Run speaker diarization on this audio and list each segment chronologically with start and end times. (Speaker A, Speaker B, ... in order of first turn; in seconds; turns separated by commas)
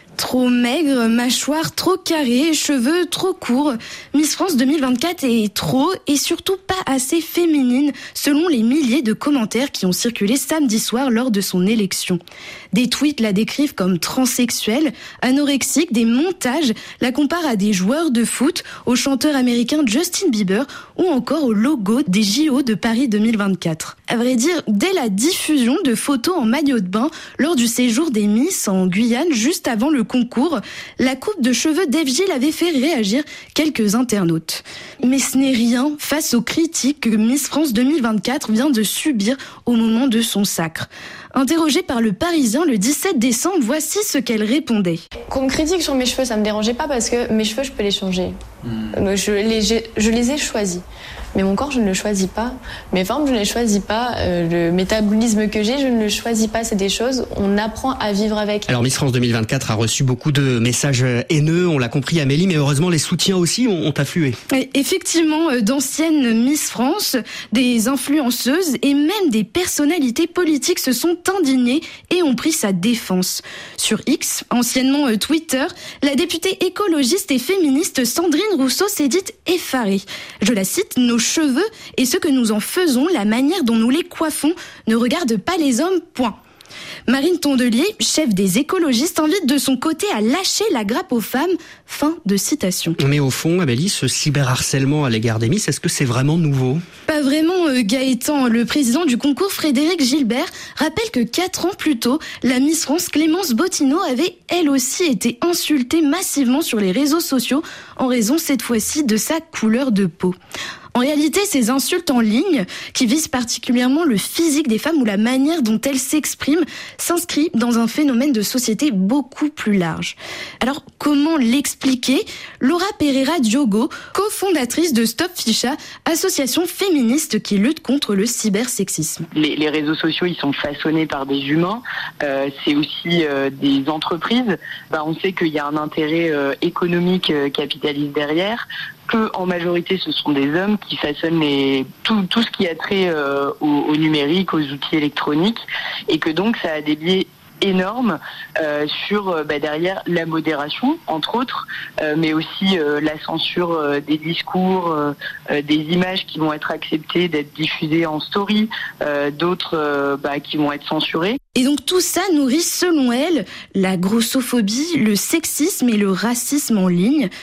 Speaker A: 0.2-12.2, Speaker A: 12.7-45.0, Speaker B: 45.3-48.3, Speaker B: 48.9-50.8, Speaker B: 51.3-58.7, Speaker C: 58.7-64.4, Speaker A: 64.5-86.3, Speaker A: 87.1-93.0, Speaker C: 93.0-96.8, Speaker A: 97.1-110.4, Speaker A: 110.9-129.3, Speaker D: 129.3-161.4, Speaker A: 161.6-167.3